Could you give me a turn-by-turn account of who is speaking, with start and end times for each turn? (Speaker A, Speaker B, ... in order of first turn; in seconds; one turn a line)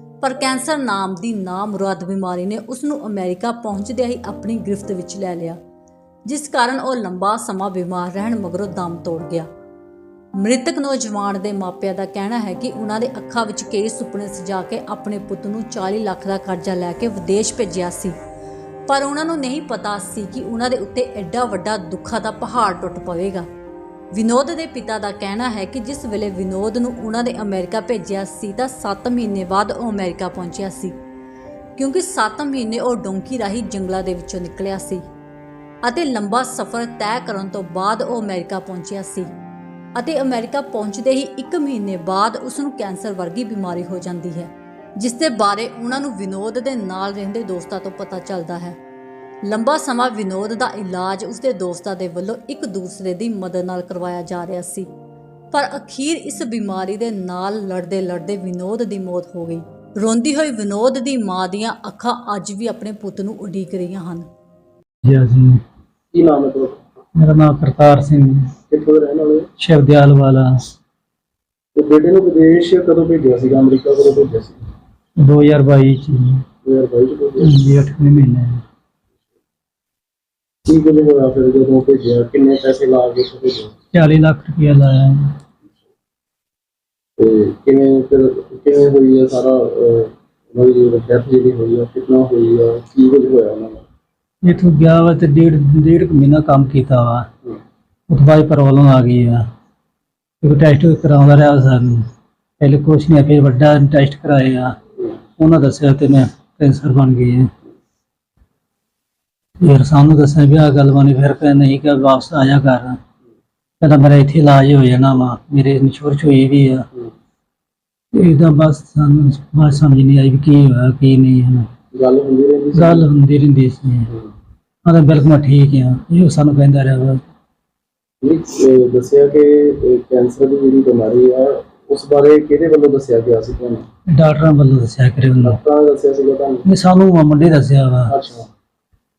Speaker A: 0.2-5.6
Speaker A: 6.3-9.5
Speaker A: 10.4-18.1
Speaker A: 18.9-23.4
Speaker A: 24.1-30.9
Speaker A: 31.8-35.0
Speaker A: 35.8-39.3
Speaker A: 40.0-48.8
Speaker A: 49.5-54.9
Speaker A: 55.5-64.3
Speaker B: 65.0-65.6
Speaker C: 66.1-66.8
Speaker B: 67.2-68.5
Speaker C: 68.7-69.5
Speaker B: 69.6-70.5
Speaker C: 71.7-74.6
Speaker B: 75.2-76.4
Speaker C: 76.6-77.5
Speaker B: 77.4-78.6
Speaker C: 80.7-83.7
Speaker B: 83.9-85.3
Speaker C: 87.2-93.8
Speaker B: 94.4-97.3
Speaker B: 98.1-99.4
Speaker B: 100.4-102.0
Speaker B: 102.6-104.8
Speaker B: 105.4-107.5
Speaker B: 109.6-113.0
Speaker B: 113.8-116.9
Speaker B: 118.1-121.7
Speaker C: 121.9-123.1
Speaker B: 122.7-124.1
Speaker B: 124.8-127.2
Speaker C: 128.2-133.8
Speaker B: 134.1-135.6
Speaker C: 135.4-136.6
Speaker B: 136.7-138.1
Speaker C: 138.1-138.5